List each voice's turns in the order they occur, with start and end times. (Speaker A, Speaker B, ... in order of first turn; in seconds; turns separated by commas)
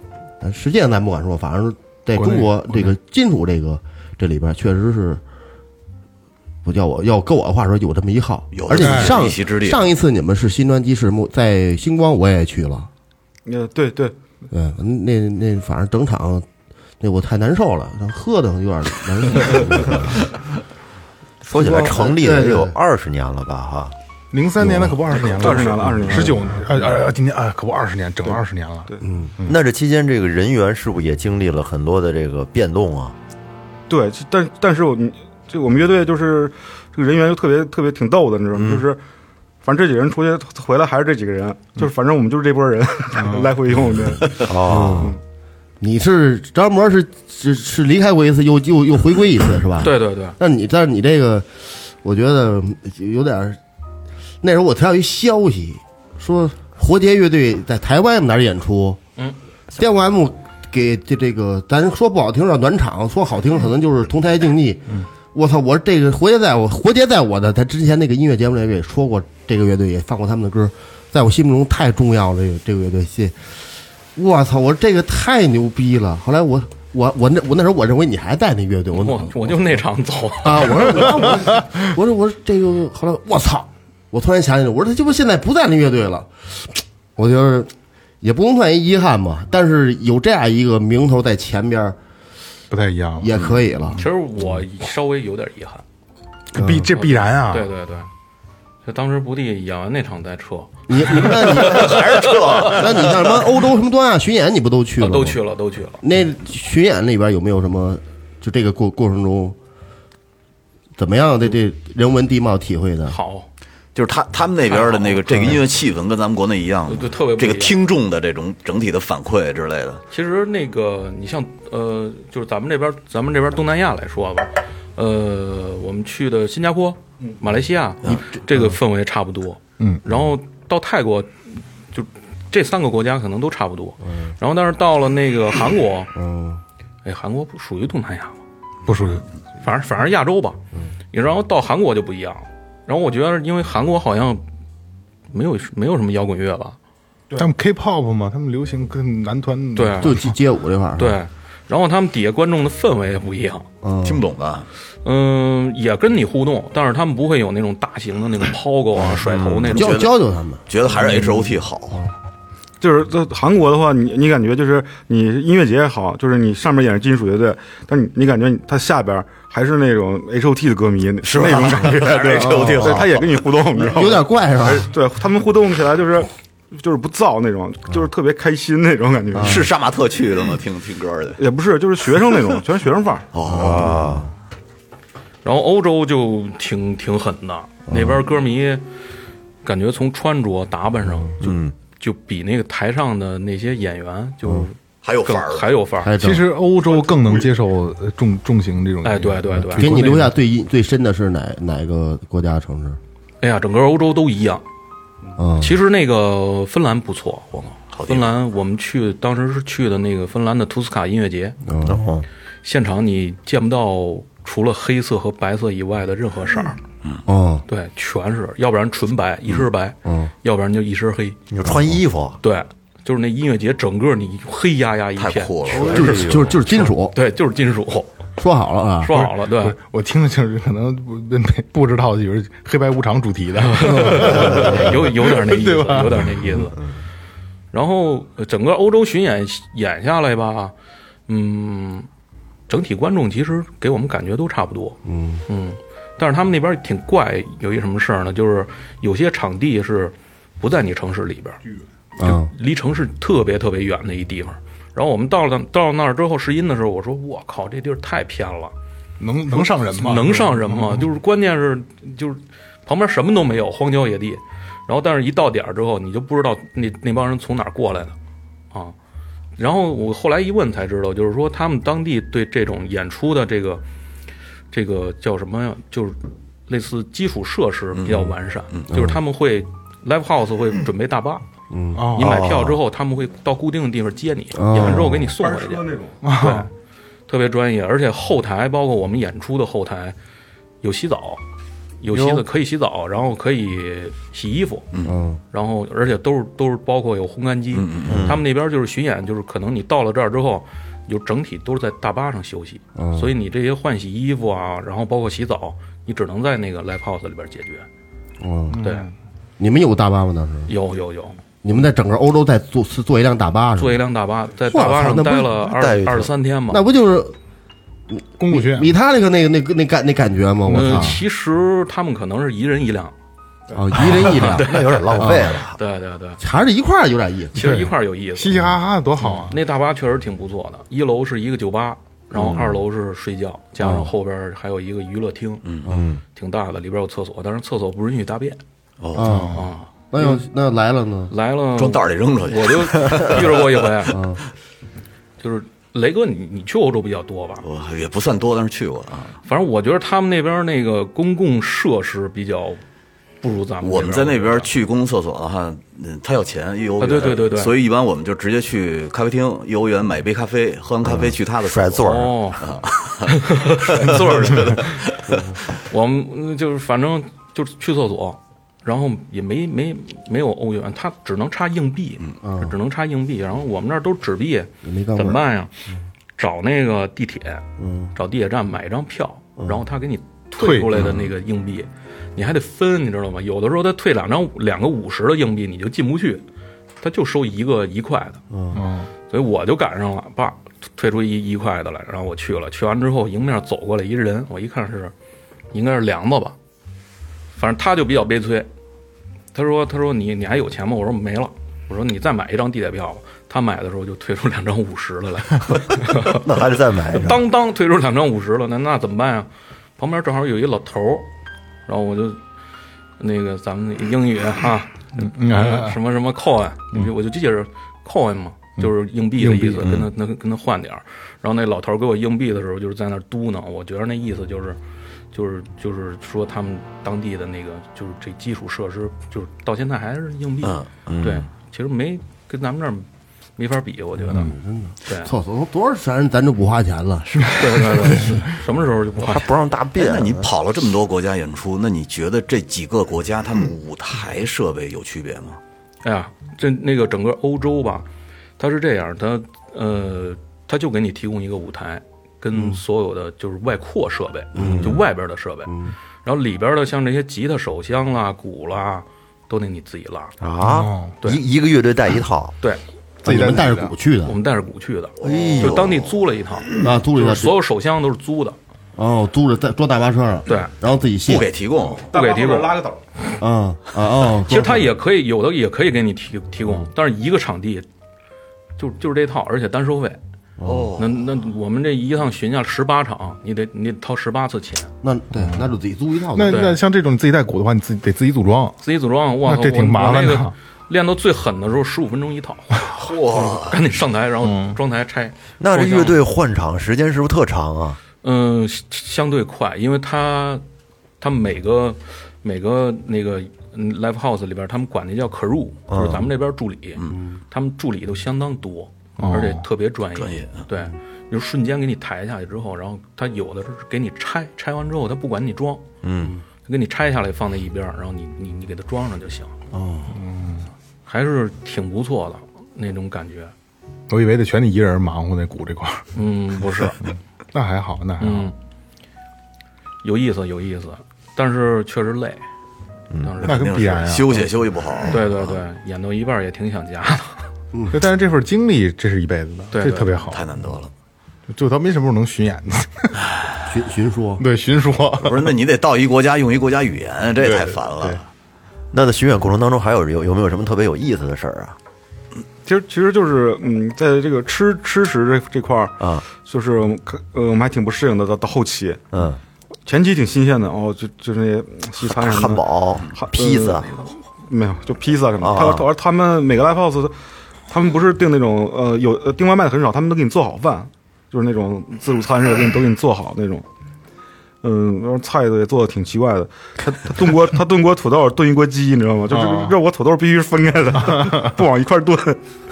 Speaker A: 0.4-5.2, Speaker B: 2.1-2.9, Speaker A: 6.6-12.9, Speaker C: 8.5-9.8, Speaker B: 8.7-9.2, Speaker D: 13.4-14.2, Speaker A: 14.5-16.5, Speaker A: 17.0-20.2, Speaker A: 21.5-22.8, Speaker E: 21.5-23.9, Speaker B: 24.3-29.6, Speaker A: 24.6-25.0, Speaker D: 25.1-26.6, Speaker D: 28.3-29.0, Speaker A: 29.0-29.3, Speaker E: 29.5-33.1, Speaker D: 33.9-39.0, Speaker E: 38.5-38.9, Speaker D: 39.6-44.4, Speaker B: 43.2-43.5, Speaker E: 44.4-45.1, Speaker A: 44.6-45.1, Speaker A: 45.8-53.6, Speaker F: 49.8-50.4, Speaker A: 54.4-59.0, Speaker A: 59.7-73.5, Speaker A: 74.1-79.6, Speaker F: 78.9-81.1, Speaker A: 80.4-87.7, Speaker A: 88.2-92.0, Speaker B: 92.7-93.3, Speaker A: 93.2-94.0, Speaker F: 94.0-95.8, Speaker B: 96.5-97.7, Speaker A: 96.5-96.9, Speaker F: 96.9-98.1, Speaker F: 98.8-103.0, Speaker A: 100.9-105.4, Speaker C: 102.2-102.8, Speaker F: 105.0-106.0, Speaker A: 106.0-109.5, Speaker A: 111.0-113.2, Speaker F: 113.1-113.5, Speaker C: 113.9-120.0, Speaker F: 114.7-115.5, Speaker A: 115.3-115.6, Speaker F: 116.9-117.8, Speaker F: 120.1-136.1, Speaker B: 129.8-130.2, Speaker A: 134.0-134.3, Speaker A: 136.1-136.6, Speaker F: 137.0-138.4, Speaker B: 138.8-139.2, Speaker F: 139.6-140.6, Speaker F: 141.1-144.4, Speaker F: 145.3-146.8, Speaker B: 147.4-150.3, Speaker F: 149.7-150.2, Speaker A: 150.0-151.2, Speaker F: 151.0-153.7, Speaker A: 153.8-154.2, Speaker C: 154.0-154.7, Speaker F: 155.0-160.0, Speaker C: 159.2-162.0, Speaker A: 159.7-162.1, Speaker D: 162.8-179.7, Speaker C: 171.2-173.4, Speaker A: 172.3-173.1, Speaker A: 173.7-174.9, Speaker A: 179.3-179.7, Speaker C: 179.4-181.4, Speaker D: 181.3-183.3, Speaker C: 183.3-184.0, Speaker A: 183.4-184.3, Speaker E: 183.4-184.3, Speaker F: 185.4-188.8, Speaker A: 187.9-188.2, Speaker F: 189.6-196.2, Speaker E: 191.4-191.7, Speaker C: 195.0-195.7, Speaker A: 196.0-196.5, Speaker B: 196.2-200.3, Speaker D: 196.8-197.6, Speaker F: 199.0-200.1, Speaker A: 199.5-203.0, Speaker F: 203.4-204.6, Speaker A: 205.4-205.8, Speaker F: 205.6-211.6, Speaker C: 207.9-208.4, Speaker A: 211.7-212.1, Speaker E: 211.8-212.3, Speaker F: 212.6-216.8, Speaker A: 217.2-217.6, Speaker F: 217.7-221.4, Speaker A: 220.0-220.3, Speaker E: 221.5-222.4, Speaker F: 222.4-228.1, Speaker C: 225.2-226.5, Speaker A: 225.7-227.2, Speaker E: 225.7-226.6, Speaker A: 228.4-229.1, Speaker F: 229.0-229.8, Speaker B: 229.1-236.5, Speaker F: 233.6-236.8, Speaker A: 234.1-234.8, Speaker F: 237.7-240.7, Speaker F: 241.3-242.1, Speaker F: 242.7-251.6, Speaker A: 245.0-245.4, Speaker A: 252.2-252.5, Speaker F: 252.2-258.7, Speaker B: 259.2-261.1, Speaker F: 259.5-268.1, Speaker F: 269.6-273.8, Speaker F: 274.7-281.4, Speaker C: 278.0-278.8, Speaker A: 278.9-279.2, Speaker A: 281.7-282.1, Speaker B: 281.9-282.4, Speaker F: 282.1-286.7, Speaker E: 282.3-282.8, Speaker A: 284.5-285.3, Speaker D: 285.2-286.3, Speaker B: 286.2-286.7, Speaker F: 287.3-290.1, Speaker F: 290.8-291.4, Speaker F: 292.0-294.9, Speaker A: 295.1-295.4, Speaker F: 295.5-307.9, Speaker C: 297.7-298.3, Speaker E: 298.1-298.4, Speaker A: 302.9-303.3, Speaker A: 308.4-308.8, Speaker B: 308.7-309.1, Speaker F: 308.8-309.1, Speaker A: 309.6-310.7, Speaker F: 310.7-311.4, Speaker A: 311.6-314.0, Speaker F: 313.8-316.8, Speaker A: 314.7-315.6, Speaker E: 315.6-316.3, Speaker A: 316.7-317.3, Speaker A: 318.1-321.2, Speaker B: 318.4-318.9, Speaker F: 320.7-323.1, Speaker B: 320.7-321.1, Speaker A: 323.7-325.6, Speaker F: 323.9-326.4, Speaker E: 324.0-325.8, Speaker A: 326.4-327.6, Speaker F: 327.5-328.7, Speaker B: 327.6-329.6, Speaker F: 329.2-335.7, Speaker E: 332.4-332.8, Speaker A: 333.8-334.1, Speaker C: 335.6-335.9, Speaker A: 335.8-336.2, Speaker E: 335.9-336.2, Speaker F: 336.3-338.6, Speaker C: 339.0-339.3, Speaker A: 339.1-341.3, Speaker B: 339.2-339.7, Speaker F: 339.4-340.4, Speaker F: 341.3-344.2, Speaker C: 341.8-344.1, Speaker A: 344.1-344.4, Speaker F: 345.4-347.6, Speaker C: 347.6-349.4, Speaker F: 349.4-352.8, Speaker F: 353.4-354.7, Speaker C: 353.8-365.5, Speaker F: 357.0-357.8, Speaker E: 361.0-362.4, Speaker F: 362.0-362.7, Speaker F: 363.2-365.1, Speaker A: 365.3-365.6, Speaker F: 365.9-375.7, Speaker A: 372.4-372.7, Speaker A: 374.8-375.4, Speaker F: 376.4-386.4, Speaker A: 377.8-378.1, Speaker B: 380.6-381.1, Speaker C: 380.9-381.3, Speaker F: 387.0-388.4, Speaker A: 388.5-388.8, Speaker B: 388.7-389.1, Speaker F: 389.3-395.1, Speaker F: 395.7-396.6, Speaker F: 397.5-398.7, Speaker F: 399.5-406.4, Speaker E: 406.0-407.4, Speaker F: 407.0-411.3, Speaker F: 411.9-412.4, Speaker F: 413.2-424.8, Speaker B: 415.2-415.9, Speaker B: 418.8-420.0, Speaker F: 425.3-434.5, Speaker E: 431.1-431.5, Speaker A: 434.3-437.6, Speaker F: 435.1-435.3, Speaker F: 437.6-439.5, Speaker E: 439.2-440.5, Speaker C: 439.9-445.6, Speaker F: 446.0-448.1, Speaker F: 448.6-460.3, Speaker A: 452.5-452.8, Speaker A: 454.5-455.0, Speaker E: 460.4-462.5, Speaker B: 460.6-461.2, Speaker B: 463.2-463.9, Speaker A: 463.2-464.4, Speaker F: 464.2-468.6, Speaker C: 465.2-466.1, Speaker E: 465.2-465.9, Speaker A: 466.8-467.6, Speaker A: 468.9-471.5, Speaker F: 470.5-470.7, Speaker C: 471.2-472.1, Speaker D: 472.1-473.0, Speaker F: 472.1-472.8, Speaker A: 473.4-474.9, Speaker F: 474.4-477.9, Speaker F: 478.8-480.2, Speaker A: 480.6-480.9, Speaker C: 480.6-481.2, Speaker F: 481.0-484.9, Speaker A: 485.0-486.6, Speaker B: 485.4-485.7, Speaker B: 486.3-488.8, Speaker F: 486.5-486.8, Speaker F: 488.8-496.2, Speaker B: 489.4-490.5, Speaker C: 492.9-493.8, Speaker B: 494.4-494.8, Speaker E: 495.6-498.0, Speaker F: 498.2-500.6, Speaker F: 501.2-515.9, Speaker E: 505.9-506.3, Speaker A: 507.1-507.4, Speaker B: 509.2-509.6, Speaker C: 510.1-510.6, Speaker E: 516.0-516.3, Speaker F: 516.6-519.5, Speaker A: 519.7-520.1, Speaker B: 520.1-520.7, Speaker F: 521.0-523.5, Speaker B: 524.1-526.0, Speaker F: 526.1-527.0, Speaker B: 527.5-528.5, Speaker F: 528.2-528.5, Speaker F: 530.0-532.4, Speaker E: 533.1-533.4, Speaker F: 533.2-533.9, Speaker B: 533.4-534.5, Speaker C: 533.4-535.6, Speaker F: 535.1-537.5, Speaker A: 537.7-538.0, Speaker B: 537.9-540.6, Speaker F: 539.7-540.2, Speaker C: 540.3-540.9, Speaker B: 541.5-543.1, Speaker A: 543.6-544.4, Speaker B: 544.4-545.5, Speaker C: 545.2-548.2, Speaker B: 547.4-548.2, Speaker E: 548.9-551.8, Speaker D: 552.6-559.0, Speaker E: 556.0-556.2, Speaker E: 559.1-559.4, Speaker D: 559.9-567.1, Speaker E: 562.0-564.0, Speaker E: 565.4-565.9, Speaker D: 567.7-573.6, Speaker D: 574.6-582.4, Speaker B: 579.3-579.8, Speaker B: 581.0-581.6